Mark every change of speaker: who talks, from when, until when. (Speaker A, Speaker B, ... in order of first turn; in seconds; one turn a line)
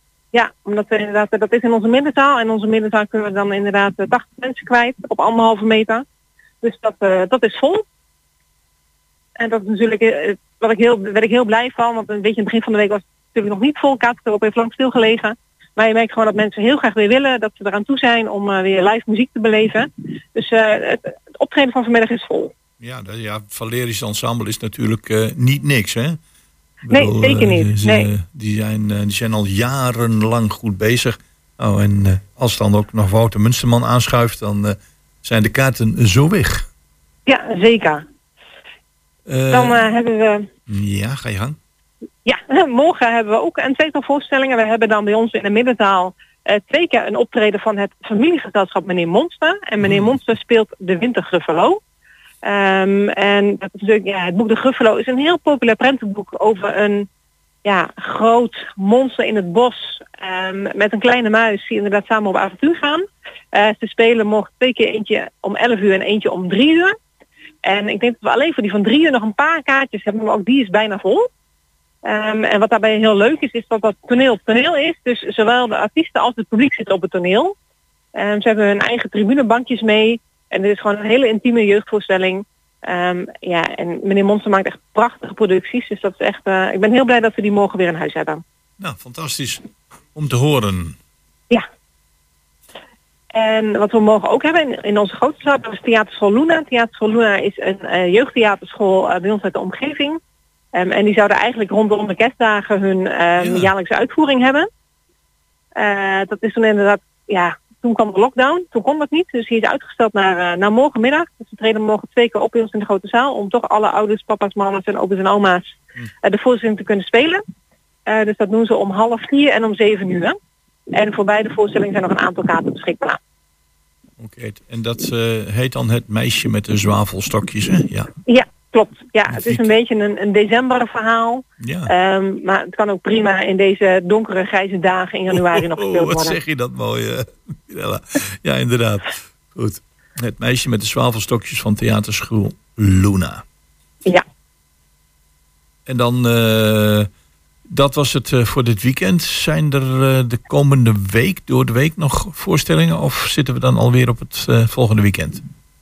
Speaker A: 0.3-6.0
Speaker A: 6.6-7.8
Speaker A: 9.4-22.5
Speaker B: 22.8-26.2
Speaker B: 26.9-36.7
Speaker A: 26.9-28.1
Speaker A: 37.2-38.0
Speaker B: 39.3-39.9
Speaker A: 39.5-40.5
Speaker B: 40.7-41.6
Speaker A: 42.2-51.8
Speaker B: 49.8-50.1
Speaker A: 52.4-57.1
Speaker A: 57.6-67.0
Speaker A: 67.6-71.3
Speaker A: 72.0-77.5
Speaker A: 78.1-88.4
Speaker B: 88.8-91.0
Speaker A: 93.3-100.2
Speaker A: 100.7-104.7
Speaker B: 103.4-103.7
Speaker A: 105.7-117.4
Speaker A: 118.1-120.3
Speaker A: 120.9-123.2
Speaker B: 124.2-128.1
Speaker A: 128.2-136.4
Speaker B: 129.3-129.7
Speaker B: 131.6-131.9
Speaker B: 135.3-143.4
Speaker B: 145.8-147.1
Speaker B: 147.7-155.4